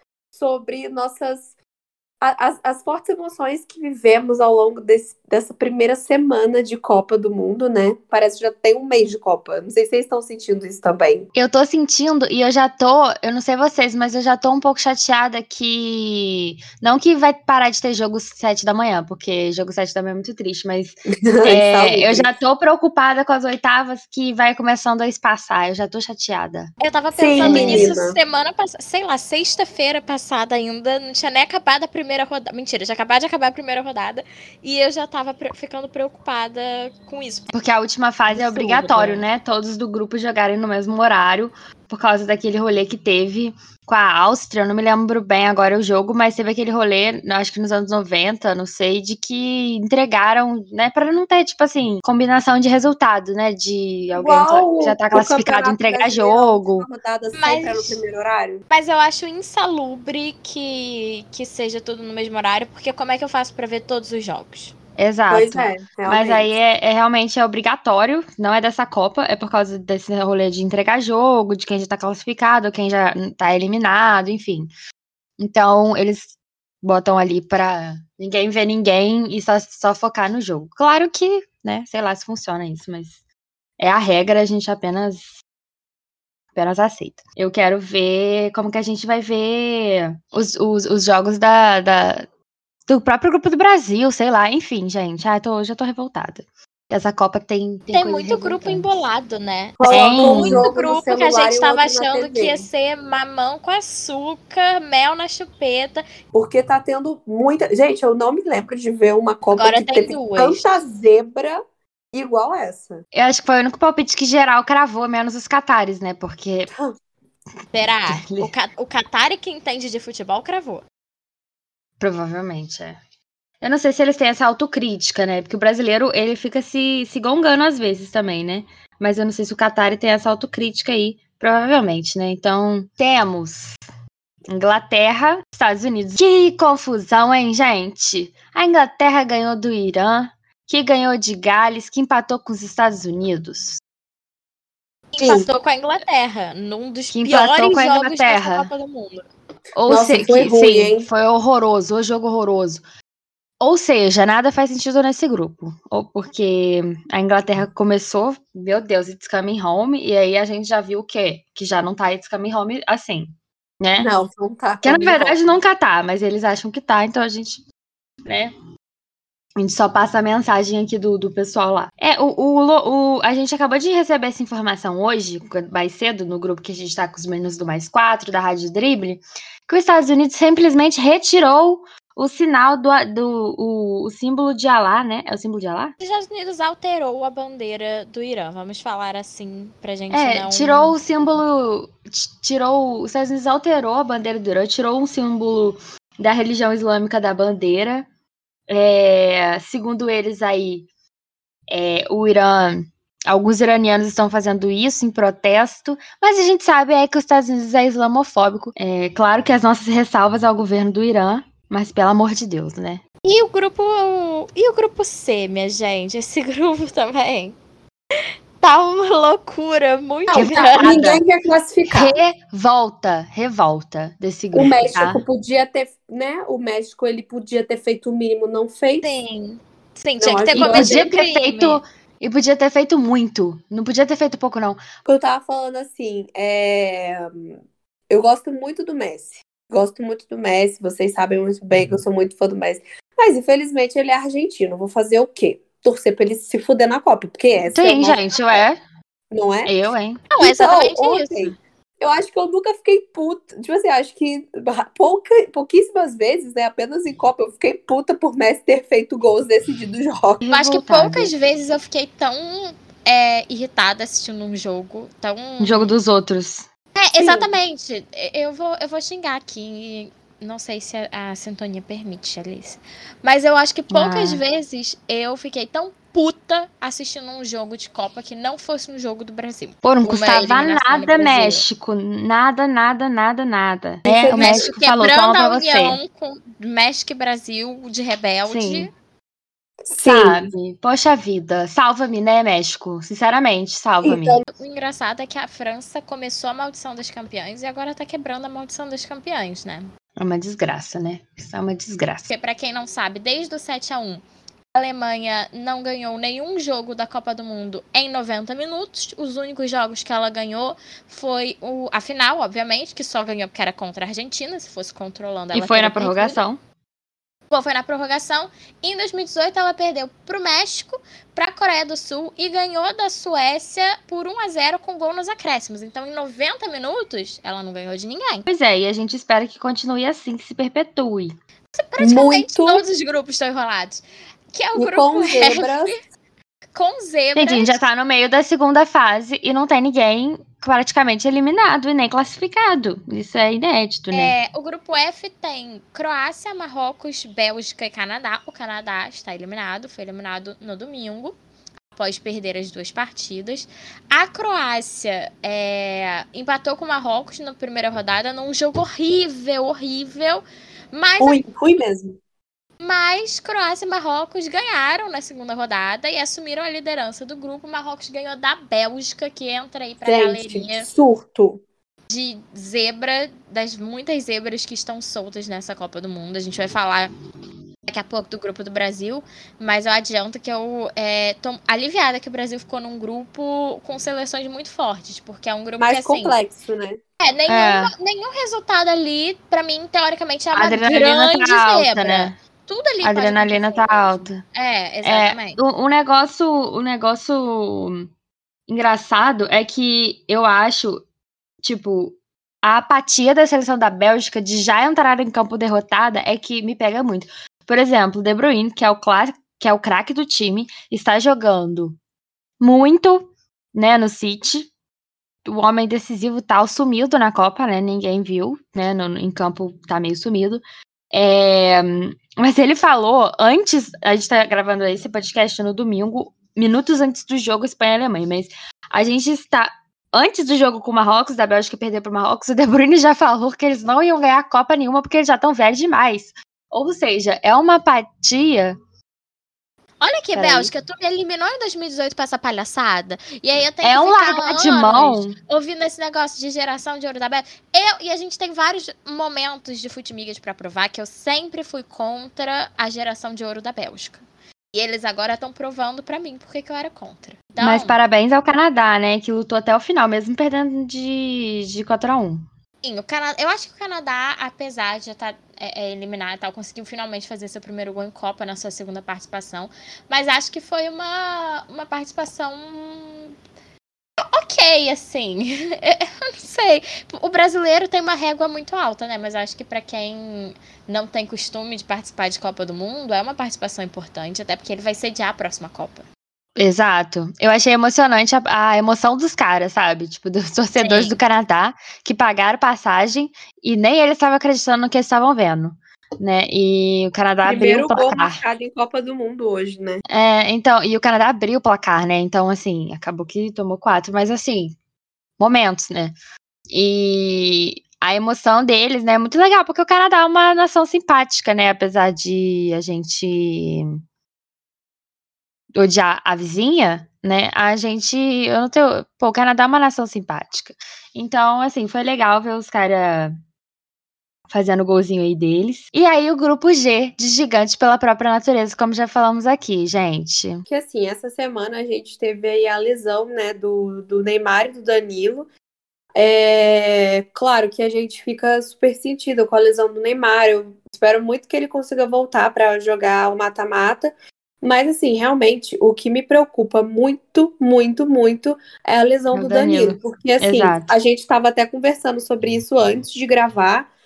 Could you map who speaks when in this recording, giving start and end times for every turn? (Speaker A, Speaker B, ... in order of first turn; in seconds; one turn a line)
Speaker A: 0.3-1.5
Speaker A: 2.2-11.3
Speaker B: 11.3-26.7
Speaker A: 21.3-22.3
Speaker C: 26.8-37.5
Speaker A: 27.1-28.2
Speaker B: 27.4-27.9
Speaker B: 37.5-56.9
Speaker C: 38.3-39.3
Speaker A: 54.1-58.6
Speaker C: 57.3-58.0
Speaker C: 58.7-64.7
Speaker B: 65.0-74.7
Speaker A: 65.3-66.6
Speaker B: 75.4-83.2
Speaker B: 83.8-85.4
Speaker B: 86.5-92.2
Speaker B: 92.9-98.9
Speaker C: 97.9-106.0
Speaker A: 99.8-102.7
Speaker B: 99.8-100.6
Speaker A: 106.3-111.6
Speaker C: 109.5-110.6
Speaker A: 112.1-113.0
Speaker B: 113.1-116.7
Speaker C: 117.7-120.8
Speaker B: 118.1-118.5
Speaker B: 122.0-123.0
Speaker B: 123.6-133.8
Speaker B: 134.5-143.8
Speaker C: 145.1-149.2
Speaker A: 145.2-145.5
Speaker B: 147.1-148.7
Speaker B: 149.8-152.8
Speaker A: 149.9-151.1
Speaker B: 153.6-164.1
Speaker A: 164.0-165.5
Speaker B: 164.8-167.6
Speaker B: 168.2-168.5
Speaker B: 169.6-185.9
Speaker C: 186.0-191.0
Speaker B: 190.1-198.1
Speaker B: 198.7-200.9
Speaker B: 201.7-213.0
Speaker C: 213.2-217.6
Speaker C: 218.6-220.9
Speaker A: 220.3-222.2
Speaker B: 220.3-221.2
Speaker B: 221.9-225.2
Speaker A: 224.5-229.1
Speaker C: 229.0-231.8
Speaker A: 230.2-231.0
Speaker B: 230.5-234.8
Speaker A: 235.0-248.3
Speaker B: 247.7-248.8
Speaker A: 249.3-249.7
Speaker B: 249.7-250.2
Speaker C: 250.3-251.5
Speaker A: 250.4-260.4
Speaker B: 260.4-261.3
Speaker C: 260.5-265.9
Speaker B: 265.6-266.6
Speaker C: 266.9-281.6
Speaker A: 267.1-267.5
Speaker B: 273.9-274.4
Speaker B: 279.8-286.0
Speaker A: 284.0-284.7
Speaker C: 284.3-288.9
Speaker B: 288.4-288.9
Speaker A: 289.9-290.5
Speaker B: 290.0-294.4
Speaker A: 294.0-294.4
Speaker C: 294.4-299.9
Speaker B: 300.2-302.3
Speaker C: 302.3-316.4
Speaker B: 315.5-316.6
Speaker C: 317.5-328.5
Speaker B: 328.5-331.3
Speaker C: 331.7-336.0
Speaker A: 332.0-332.8
Speaker A: 334.8-335.9
Speaker C: 336.7-337.8
Speaker B: 337.3-344.3
Speaker C: 344.1-351.4
Speaker C: 351.9-361.4
Speaker A: 361.2-362.2
Speaker C: 362.8-370.9
Speaker A: 370.0-371.6
Speaker C: 372.1-377.1
Speaker C: 377.9-386.4
Speaker A: 385.8-387.0
Speaker C: 387.2-395.6
Speaker B: 387.5-387.9
Speaker B: 390.5-392.3
Speaker B: 393.0-394.4
Speaker B: 395.0-398.1
Speaker B: 398.7-401.0
Speaker B: 401.6-412.0
Speaker B: 412.6-414.7
Speaker B: 415.4-438.8
Speaker C: 440.0-454.2
Speaker B: 440.3-440.7
Speaker B: 443.8-445.4
Speaker C: 454.7-458.0
Speaker B: 457.6-462.4
Speaker C: 462.8-473.3
Speaker C: 474.3-486.0
Speaker B: 486.6-498.4
Speaker C: 490.8-491.2
Speaker A: 497.4-500.0
Speaker B: 500.1-504.7
Speaker B: 505.4-506.1
Speaker B: 506.7-513.9
Speaker B: 515.7-523.4
Speaker B: 524.5-530.6
Speaker A: 530.7-535.5
Speaker A: 536.1-553.9
Speaker B: 549.3-550.9